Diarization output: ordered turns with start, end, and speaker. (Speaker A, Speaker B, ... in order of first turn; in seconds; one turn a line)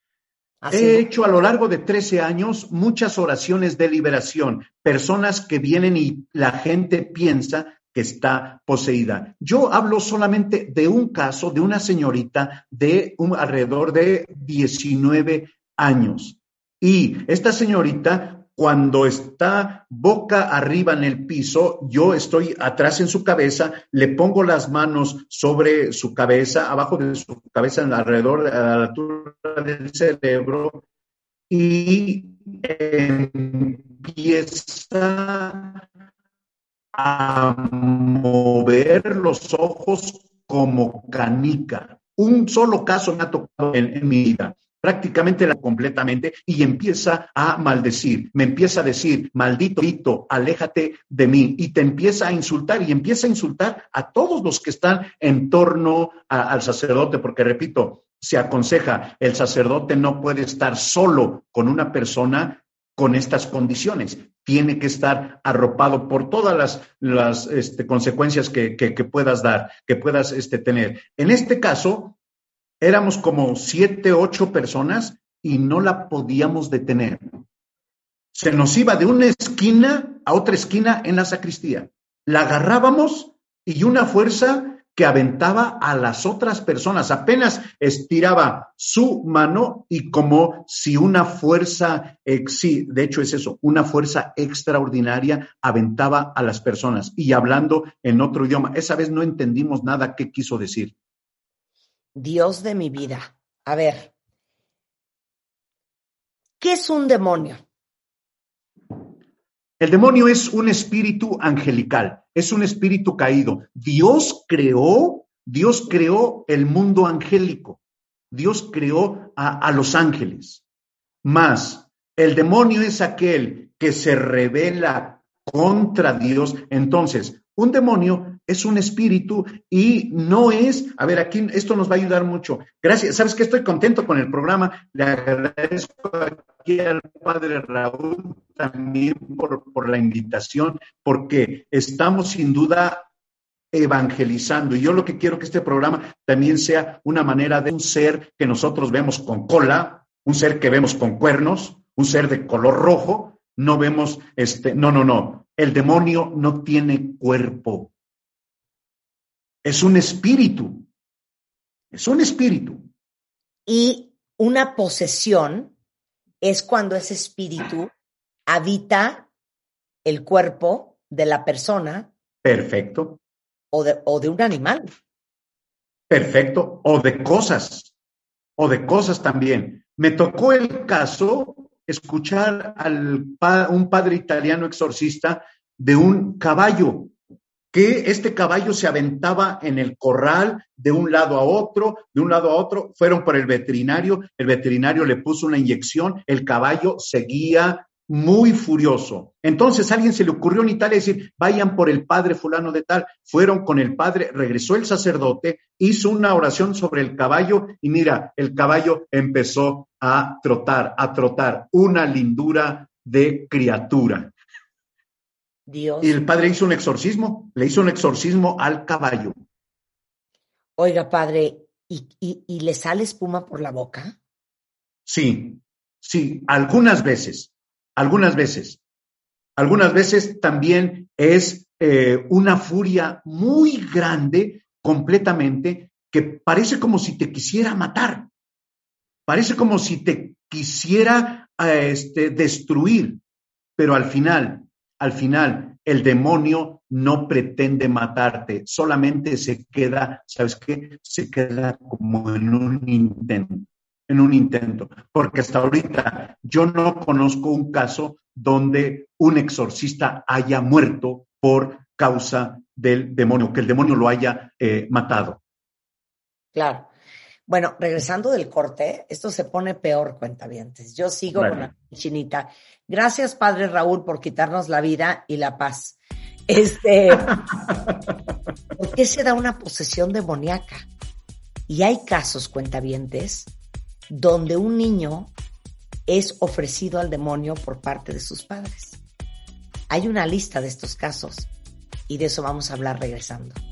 Speaker A: 0.6-1.1
Speaker B: 0.7-30.8
Speaker B: 31.5-35.9
Speaker B: 36.9-72.2
Speaker B: 72.8-77.4
Speaker B: 78.3-100.9
Speaker A: 102.2-104.1
Speaker A: 106.6-107.6
Speaker B: 109.8-117.8
Speaker B: 118.3-120.6
Speaker B: 121.2-143.1
Speaker B: 143.7-157.9
Speaker B: 159.6-160.9
Speaker B: 161.9-162.9
Speaker A: 163.7-165.7
Speaker A: 166.4-167.9
Speaker A: 168.5-169.3
Speaker A: 170.1-172.1
Speaker B: 172.4-173.2
Speaker A: 173.7-174.9
Speaker B: 176.1-177.9
Speaker B: 178.6-187.1
Speaker B: 187.7-214.3
Speaker A: 215.7-216.2
Speaker B: 216.0-219.3
Speaker A: 220.8-224.2
Speaker B: 225.1-228.8
Speaker B: 229.6-238.3
Speaker B: 239.3-243.2
Speaker B: 243.8-265.4
Speaker A: 266.6-266.9
Speaker A: 267.5-276.0
Speaker B: 271.4-271.6
Speaker A: 276.5-277.4
Speaker A: 278.8-280.9
Speaker A: 281.7-283.5
Speaker A: 284.1-285.3
Speaker A: 286.1-289.0
Speaker A: 289.9-291.5
Speaker A: 292.1-293.6